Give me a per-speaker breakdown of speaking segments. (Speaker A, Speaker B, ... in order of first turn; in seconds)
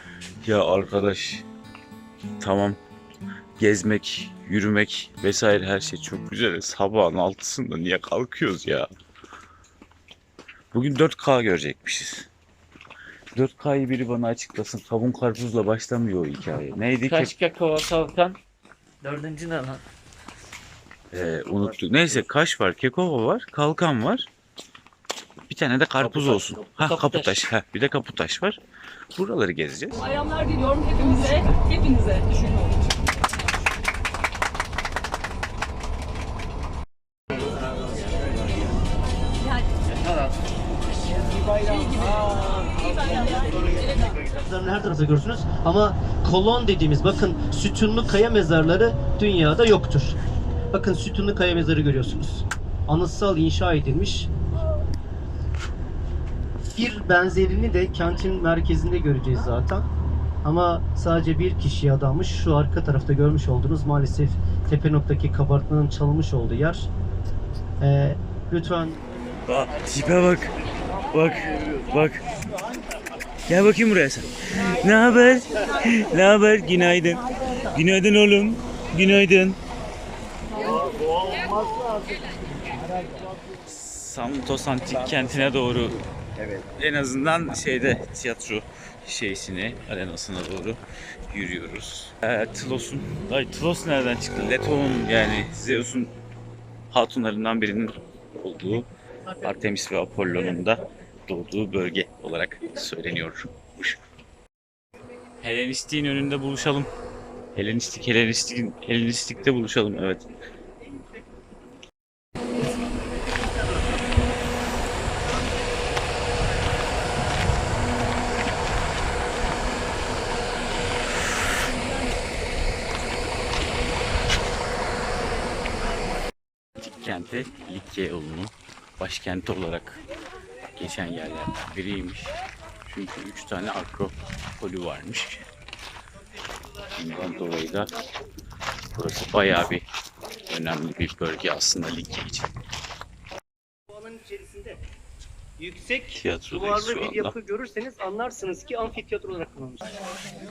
Speaker A: 0.4-1.4, 2.4-2.8, 3.6-8.9, 10.7-12.3, 13.3-17.3, 21.1-24.3, 25.5-28.6, 29.1-30.1, 69.5-70.5, 71.1-72.2, 73.5-79.6, 83.7-96.1, 96.9-104.0, 105.4-106.9, 107.5-110.2, 127.0-130.0, 130.7-135.4, 136.9-137.9, 138.9-139.8, 140.5-142.5, 146.2-147.3
Speaker B: 17.2-18.4, 19.0-19.8, 26.2-27.3
Speaker C: 30.1-32.5, 41.6-43.8
Speaker D: 44.1-50.2, 50.7-54.3, 56.6-59.9, 60.4-66.9, 67.8-69.0, 143.9-144.8, 145.6-149.9